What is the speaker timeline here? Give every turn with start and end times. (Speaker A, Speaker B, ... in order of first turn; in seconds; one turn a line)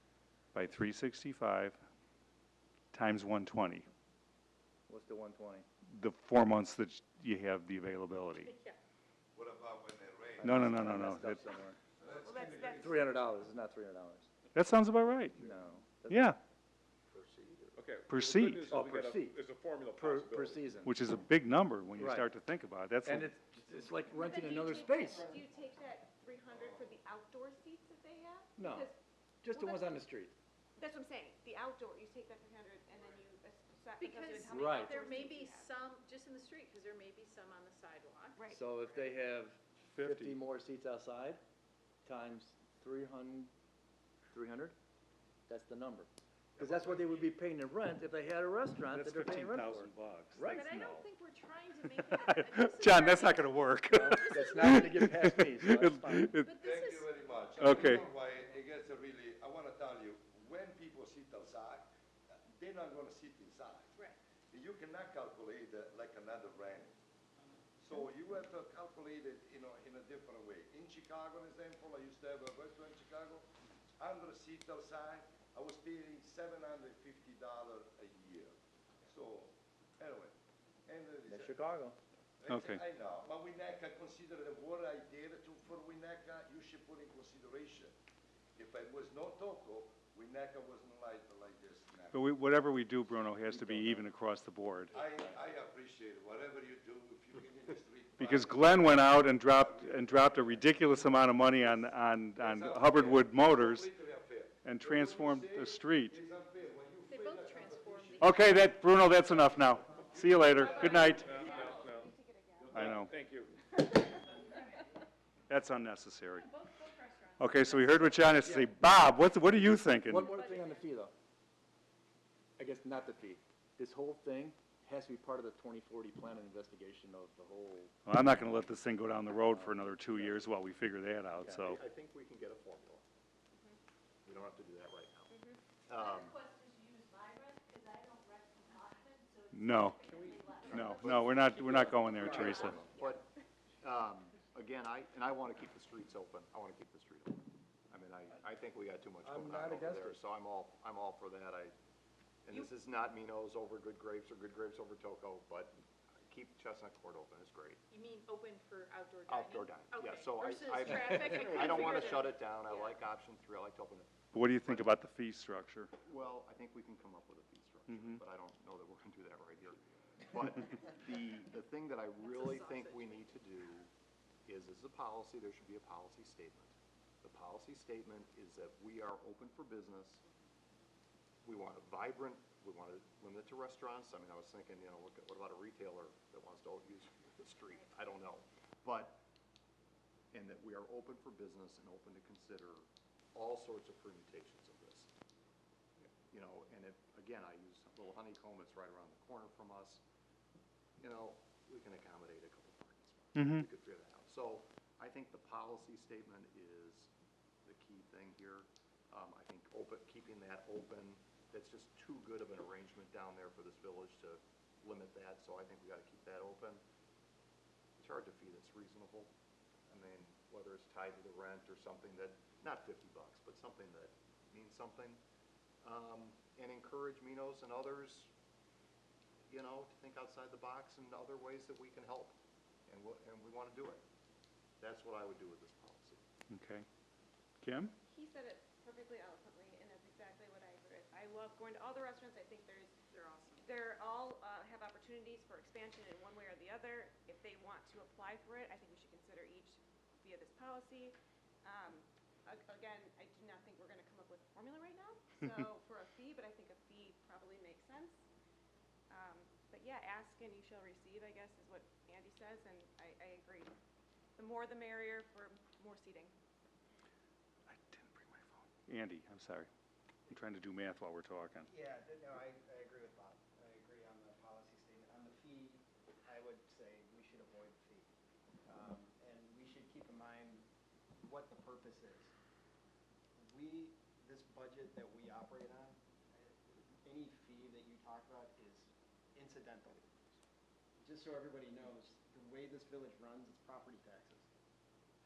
Speaker A: 0.5-1.8
Speaker A: 2.9-3.9
Speaker B: 4.9-5.7
Speaker A: 5.9-8.5
Speaker C: 8.4-8.8
Speaker D: 9.4-10.5
Speaker B: 10.4-11.8
Speaker A: 10.4-11.4
Speaker E: 11.1-11.4
Speaker E: 12.0-13.2
Speaker D: 12.0-12.8
Speaker B: 12.7-14.3
Speaker A: 14.5-15.4
Speaker B: 15.4-16.4
Speaker A: 16.1-16.4
Speaker F: 17.1-17.8
Speaker G: 17.8-20.8
Speaker A: 18.1-18.7
Speaker B: 18.6-19.4
Speaker B: 19.9-20.9
Speaker A: 20.8-23.4
Speaker B: 22.0-22.3
Speaker B: 23.0-25.4
Speaker E: 24.2-29.0
Speaker H: 24.4-25.4
Speaker B: 28.6-30.3
Speaker E: 29.5-29.9
Speaker E: 30.8-35.7
Speaker C: 34.0-39.0
Speaker B: 34.4-35.0
Speaker E: 38.4-38.6
Speaker B: 38.5-41.4
Speaker A: 39.9-40.4
Speaker B: 42.1-43.5
Speaker B: 44.3-44.8
Speaker B: 45.5-50.7
Speaker A: 48.9-51.0
Speaker C: 50.4-55.2
Speaker A: 52.2-56.5
Speaker B: 53.9-56.4
Speaker C: 56.4-57.1
Speaker D: 56.6-61.9
Speaker E: 56.9-58.1
Speaker A: 57.6-58.1
Speaker D: 62.5-63.9
Speaker D: 64.5-67.0
Speaker D: 67.8-73.5
Speaker D: 74.0-78.5
Speaker D: 79.1-80.3
Speaker D: 80.9-81.5
Speaker B: 81.3-82.0
Speaker D: 82.4-88.0
Speaker A: 82.5-82.8
Speaker D: 88.6-92.2
Speaker A: 92.1-95.0
Speaker B: 93.5-94.0
Speaker D: 95.0-100.7
Speaker A: 98.2-103.9
Speaker D: 102.4-107.9
Speaker A: 104.6-106.2
Speaker C: 107.0-108.7
Speaker E: 107.6-108.2
Speaker A: 108.2-111.4
Speaker D: 110.2-110.7
Speaker E: 110.6-112.9
Speaker G: 110.7-113.8
Speaker C: 110.9-111.7
Speaker A: 112.7-113.1
Speaker A: 115.5-116.5
Speaker C: 116.3-118.2
Speaker A: 117.4-120.3
Speaker B: 118.0-118.7
Speaker B: 120.0-121.1
Speaker C: 120.2-120.9
Speaker B: 122.6-128.0
Speaker A: 128.1-131.8
Speaker B: 129.3-130.5
Speaker B: 131.4-131.8
Speaker F: 131.7-133.1
Speaker F: 134.2-136.4
Speaker C: 135.9-141.0
Speaker A: 139.5-140.1
Speaker F: 140.5-151.8
Speaker A: 140.7-142.8
Speaker B: 142.2-142.8
Speaker B: 149.2-150.2
Speaker F: 152.5-157.8
Speaker C: 157.9-163.0
Speaker F: 159.3-165.0
Speaker A: 164.3-165.9
Speaker F: 166.0-173.9
Speaker A: 167.9-168.2
Speaker C: 172.2-173.3
Speaker F: 174.5-180.2
Speaker F: 181.4-189.2
Speaker F: 190.3-195.1
Speaker F: 196.2-200.0
Speaker F: 201.0-207.1
Speaker A: 203.3-203.7
Speaker F: 207.7-216.8
Speaker F: 218.0-219.3
Speaker F: 219.9-225.2
Speaker F: 225.8-228.3
Speaker F: 229.5-234.0
Speaker F: 234.8-236.2
Speaker A: 236.5-236.9
Speaker A: 237.6-237.9
Speaker E: 238.1-242.9
Speaker C: 243.1-243.7
Speaker E: 243.6-258.2
Speaker E: 259.1-263.7
Speaker E: 264.4-266.3
Speaker A: 267.7-269.7
Speaker A: 270.3-271.7
Speaker H: 271.7-278.1
Speaker H: 278.7-280.6
Speaker H: 281.2-282.3
Speaker H: 283.5-290.2
Speaker H: 291.0-294.5